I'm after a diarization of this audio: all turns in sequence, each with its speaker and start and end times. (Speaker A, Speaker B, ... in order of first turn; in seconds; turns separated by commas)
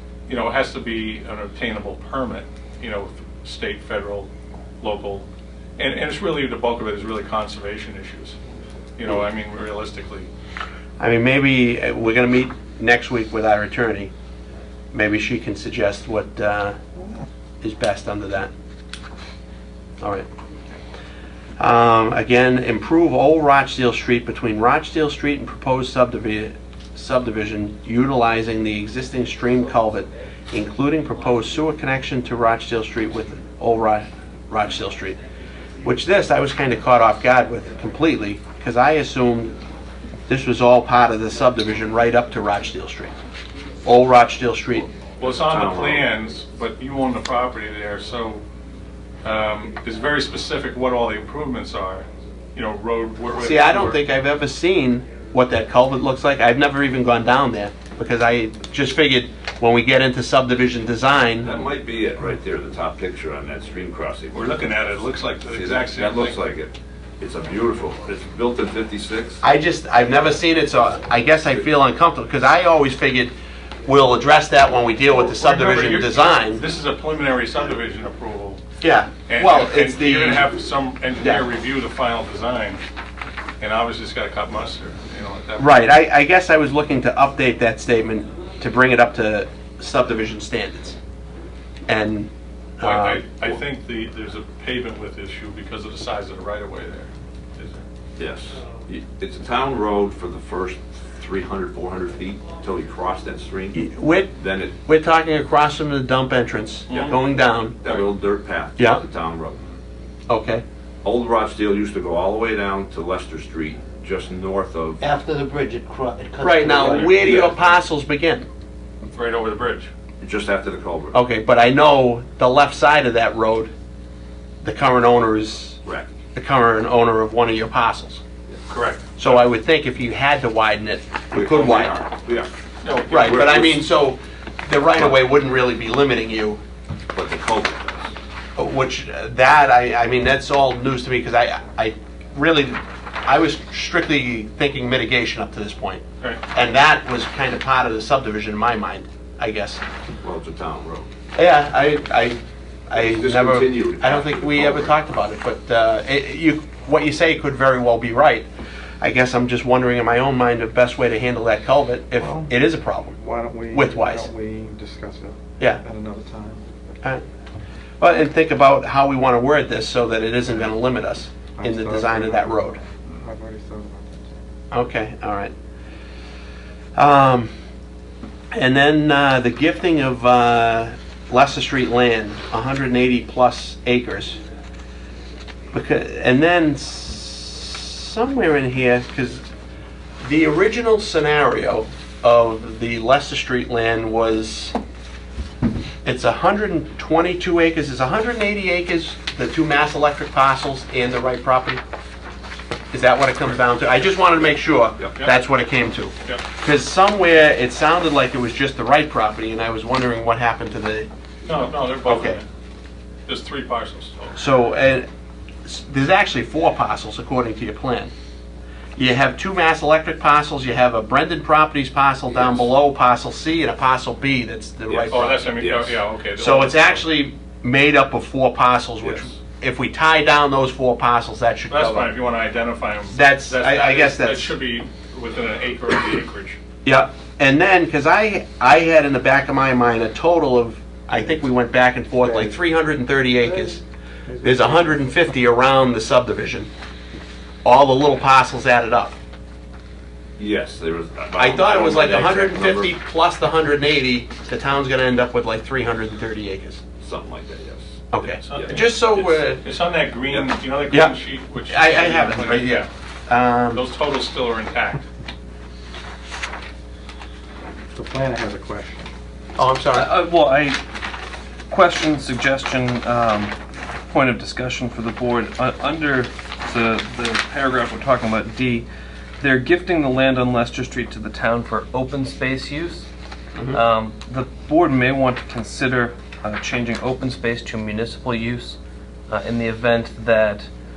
Speaker A: 0.3-4.3, Speaker A: 4.8-5.2, Speaker A: 5.8-8.4, Speaker A: 9.0-10.3, Speaker B: 11.0-14.1, Speaker B: 14.9-16.8, Speaker B: 17.6-18.5, Speaker B: 20.0-20.2, Speaker B: 21.6-35.2, Speaker B: 35.8-39.5, Speaker B: 40.3-43.1, Speaker B: 43.8-44.9, Speaker A: 45.2-48.4, Speaker C: 45.4-46.1, Speaker A: 49.2-54.0, Speaker B: 53.4-61.5, Speaker C: 61.4-64.7, Speaker A: 64.3-66.4, Speaker C: 65.4-69.4, Speaker B: 69.4-73.3, Speaker B: 73.8-76.6, Speaker A: 75.1-78.6, Speaker B: 78.8-80.5, Speaker A: 79.3-82.8, Speaker B: 81.2-81.4, Speaker A: 83.6-85.9, Speaker B: 85.6-91.0, Speaker B: 91.9-93.2, Speaker A: 92.8-97.8, Speaker C: 98.2-104.8, Speaker B: 103.7-108.0, Speaker A: 106.9-107.2, Speaker C: 106.9-107.2, Speaker C: 107.8-109.7, Speaker B: 108.8-109.0, Speaker B: 110.3-110.6, Speaker C: 111.0-115.0, Speaker D: 115.0-117.5, Speaker B: 116.4-118.5, Speaker A: 116.8-117.2, Speaker C: 117.1-117.7, Speaker A: 119.0-119.9, Speaker C: 120.2-121.2, Speaker B: 121.1-123.7, Speaker B: 124.6-125.8, Speaker C: 125.8-126.1, Speaker B: 126.3-128.2, Speaker A: 128.7-129.4, Speaker B: 129.2-132.1, Speaker C: 131.3-132.5, Speaker A: 132.8-133.4, Speaker B: 133.1-136.6, Speaker C: 133.1-133.8, Speaker C: 137.1-138.1, Speaker B: 138.6-149.8, Speaker C: 150.2-151.1, Speaker B: 151.3-158.5, Speaker C: 152.9-155.0, Speaker B: 159.0-163.2, Speaker E: 163.2-166.6, Speaker B: 163.7-164.3, Speaker B: 168.0-172.8, Speaker E: 171.6-172.4, Speaker D: 172.1-172.5, Speaker E: 173.1-174.3, Speaker B: 174.7-175.5, Speaker B: 176.9-177.5, Speaker B: 178.5-184.4, Speaker B: 185.7-189.4, Speaker B: 190.2-194.8, Speaker B: 196.0-201.8, Speaker B: 202.9-211.1, Speaker A: 211.4-212.4, Speaker B: 212.1-212.4, Speaker A: 213.3-214.4, Speaker B: 214.3-215.1, Speaker B: 215.6-218.1, Speaker B: 218.9-225.5, Speaker A: 224.9-227.0, Speaker C: 225.6-226.0, Speaker B: 226.4-232.1, Speaker C: 229.0-229.3, Speaker A: 231.7-236.6, Speaker B: 233.1-234.5, Speaker B: 236.8-243.8, Speaker E: 244.3-244.7, Speaker B: 244.4-246.7, Speaker B: 247.6-249.2, Speaker C: 250.4-252.9, Speaker B: 251.4-256.8, Speaker C: 257.0-257.9, Speaker B: 258.1-259.6, Speaker A: 258.2-258.9, Speaker C: 258.5-259.5, Speaker A: 259.6-262.9, Speaker B: 260.9-263.8, Speaker A: 263.7-265.0, Speaker E: 267.9-269.1, Speaker B: 269.6-270.1, Speaker F: 269.9-270.8, Speaker F: 271.7-273.5, Speaker F: 274.1-278.9, Speaker F: 279.4-283.1, Speaker F: 283.7-288.8, Speaker F: 289.3-290.7